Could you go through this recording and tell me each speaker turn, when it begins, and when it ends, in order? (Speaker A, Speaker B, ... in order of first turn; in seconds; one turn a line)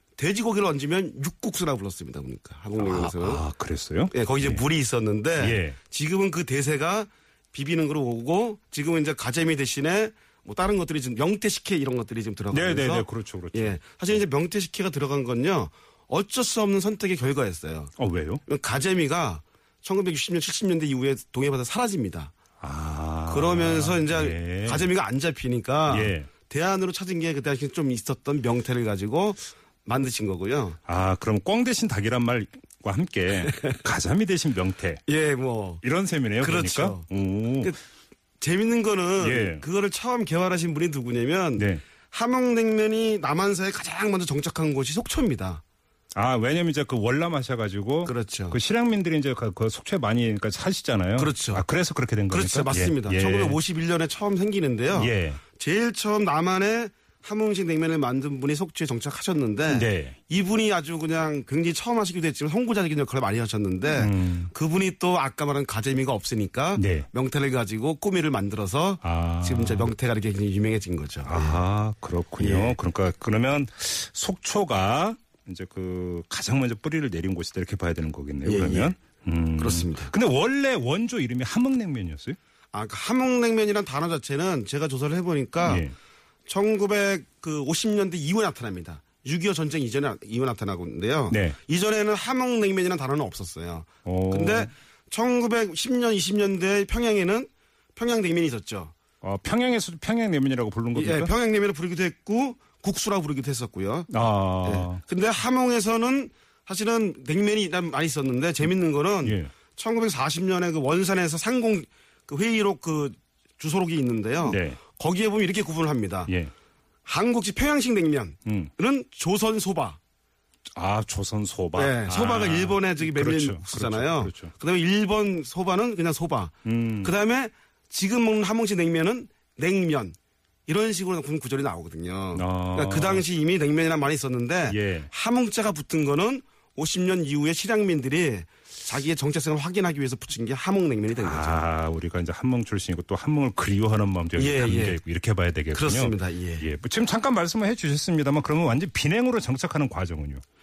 Speaker A: 0.2-3.4
Speaker B: 2.8-4.6
Speaker A: 4.1-17.9
Speaker B: 5.4-5.8
Speaker B: 12.5-14.2
Speaker B: 18.0-18.4
Speaker A: 18.5-22.3
Speaker B: 22.6-24.9
Speaker A: 23.3-30.8
Speaker B: 25.9-26.3
Speaker B: 30.9-35.0
Speaker A: 35.1-35.8
Speaker B: 35.8-37.7
Speaker A: 36.4-37.1
Speaker A: 38.4-45.6
Speaker B: 39.2-39.6
Speaker B: 41.6-41.8
Speaker B: 46.1-53.6
Speaker A: 48.0-48.6
Speaker A: 51.2-51.6
Speaker A: 52.3-71.6
Speaker B: 54.9-55.4
Speaker B: 59.7-60.2
Speaker B: 63.9-64.5
Speaker B: 66.8-67.1
Speaker B: 69.0-69.9
Speaker B: 71.2-82.4
Speaker A: 72.4-72.8
Speaker A: 78.4-78.9
Speaker A: 79.6-80.1
Speaker A: 82.7-85.9
Speaker B: 85.6-85.9
Speaker A: 86.5-98.9
Speaker B: 91.3-91.6
Speaker B: 94.0-94.7
Speaker B: 99.2-101.3
Speaker A: 100.9-104.1
Speaker B: 104.1-105.0
Speaker A: 104.6-116.3
Speaker B: 109.2-109.5
Speaker B: 114.4-114.8
Speaker A: 117.0-120.0
Speaker B: 118.5-118.7
Speaker B: 120.8-124.5
Speaker A: 121.8-141.6
Speaker B: 126.6-127.2
Speaker B: 132.3-133.3
Speaker B: 134.7-135.1
Speaker B: 141.2-150.4
Speaker A: 144.4-145.0
Speaker A: 145.7-146.7